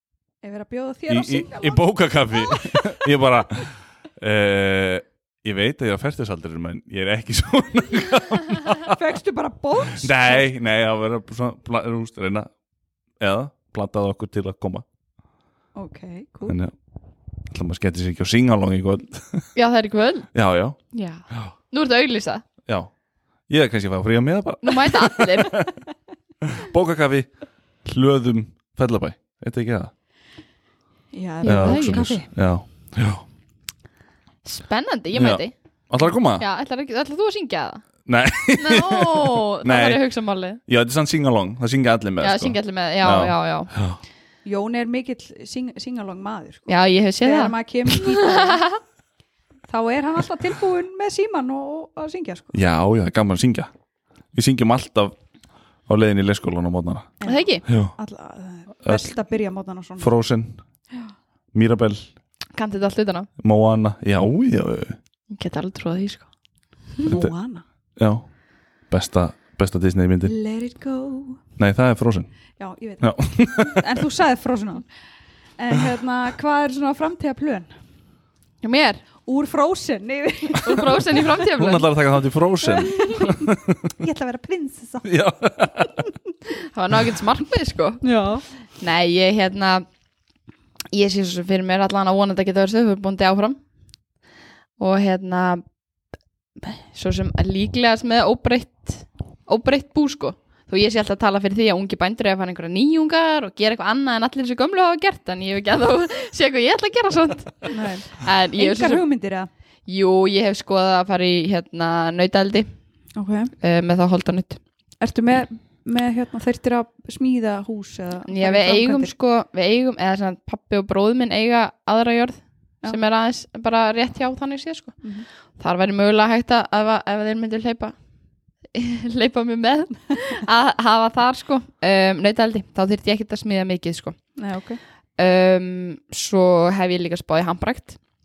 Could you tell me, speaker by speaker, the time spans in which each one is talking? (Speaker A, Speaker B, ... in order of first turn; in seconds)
Speaker A: 0.4-3.0, 8.8-10.5, 15.7-16.6, 31.1-32.3, 44.4-46.7, 47.2-48.7, 49.7-52.5, 57.2-60.1, 67.0-67.6, 70.2-71.4, 72.6-74.8, 75.6-77.7, 79.2-81.2, 82.6-85.1, 88.0-88.4, 107.7-109.5, 113.2-113.5, 115.0-119.1, 134.4-134.8
Speaker B: 1.1-9.0, 9.9-12.5, 13.2-14.8, 16.4-16.7, 17.4-19.5, 20.3-20.8, 22.6-22.9, 23.5-25.8, 26.4-27.3, 27.8-29.9, 31.4-33.2, 35.1-36.4, 38.0-40.0, 40.6-44.0, 52.5-53.7, 54.3-55.1, 55.9-57.1, 57.6-57.9, 58.8-59.1, 60.0-60.6, 61.5-62.1, 63.4-65.0, 67.0-67.3, 68.0-68.2, 68.9-70.3, 71.6-72.3, 73.0-73.9, 81.3-83.9, 85.0-86.0
Speaker C: 19.5-20.3, 20.9-22.4, 24.6-25.6, 31.4-32.1, 34.4-35.5, 36.4-37.8, 38.5-40.6, 42.2-43.7, 46.7-48.8, 57.2-57.6, 62.5-63.3, 65.3-66.3, 78.6-79.0, 80.6-81.9, 86.7-88.0, 88.8-89.8, 90.9-93.6, 94.8-95.6, 96.6-109.0, 109.9-112.7, 113.6-114.6, 118.3-125.0, 125.6-127.9, 128.7-134.2, 135.2-138.0